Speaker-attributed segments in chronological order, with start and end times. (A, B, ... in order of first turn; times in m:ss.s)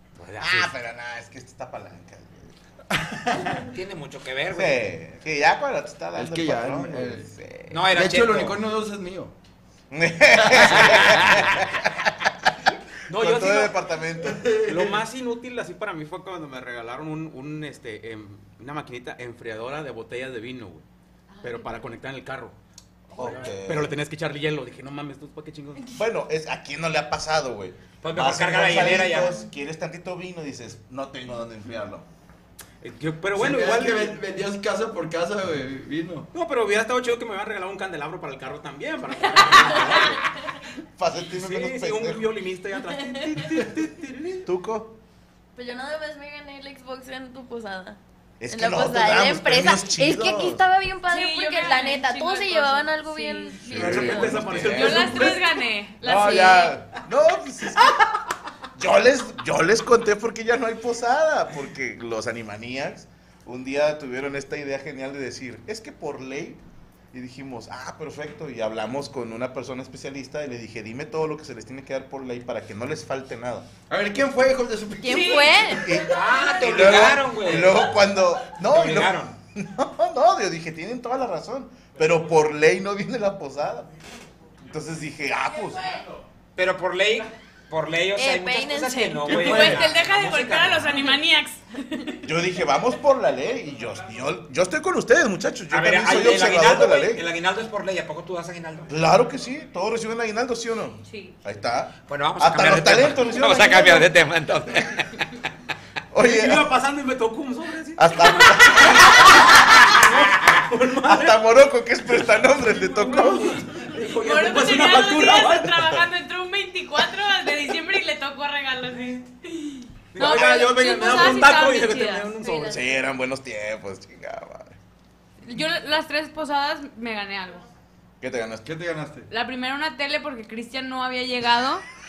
0:00.2-0:00.7 A
0:00.4-0:02.6 B
0:03.0-0:03.6 C
0:03.4-0:04.9 D
0:04.5-0:07.8 B
0:06.1-0:07.3 C
0:07.7-0:08.6 D
0:07.9-0:09.3 C
0:09.9-0:12.1 B
0:10.4-0:11.4 C
0:10.8-0:11.4 D
0:13.1-0:13.8 A
0:13.1-0:14.6 B
0:14.2-0:14.9 C
0:14.6-0:20.8 A
0:21.3-0:22.0 E
0:21.4-0:22.5 A
0:23.1-0:24.0 B
0:23.1-0:23.5 E
0:23.2-0:25.9 A
0:25.9-0:32.0 B
0:28.0-0:29.4 D
0:32.8-0:34.2 A
0:33.3-0:36.3 C
0:36.3-0:40.2 A
0:39.4-0:40.1 F
0:41.0-0:42.3 B
0:41.3-0:44.5 A
0:43.0-0:43.5 F
0:44.4-0:45.0 B
0:45.5-0:48.0 F
0:48.4-0:50.7 B
0:48.5-0:54.6 F
0:51.1-0:53.7 E
0:53.7-0:55.4 B
0:53.7-0:55.5 A
0:54.7-0:56.8 E
0:56.0-0:58.1 B
0:56.2-0:56.6 F
0:58.7-1:13.7 B
1:13.9-1:15.7 C
1:15.0-1:15.8 F
1:15.0-1:16.4 E
1:15.8-1:23.9 B
1:15.8-1:18.0 D
1:18.5-1:19.3 D
1:24.6-1:26.1 B
1:26.6-1:31.1 D
1:28.2-1:29.6 F
1:29.2-1:32.3 E
1:29.3-1:29.8 C
1:32.2-1:37.2 B
1:35.7-1:38.9 D
1:38.9-1:44.1 B
1:41.0-1:41.4 E
1:42.1-1:45.4 D
1:46.1-1:46.7 B
1:46.2-1:51.4 A
1:48.0-1:50.1 B
1:48.2-1:49.4 E
1:51.0-1:53.7 B
1:52.7-1:56.0 A
1:53.9-2:02.3 E
2:00.1-2:02.8 A
2:02.3-2:03.0 F
2:02.7-2:04.8 B
2:05.4-2:07.7 E
2:08.2-2:08.7 B
2:08.6-2:09.3 C
2:09.3-2:11.8 E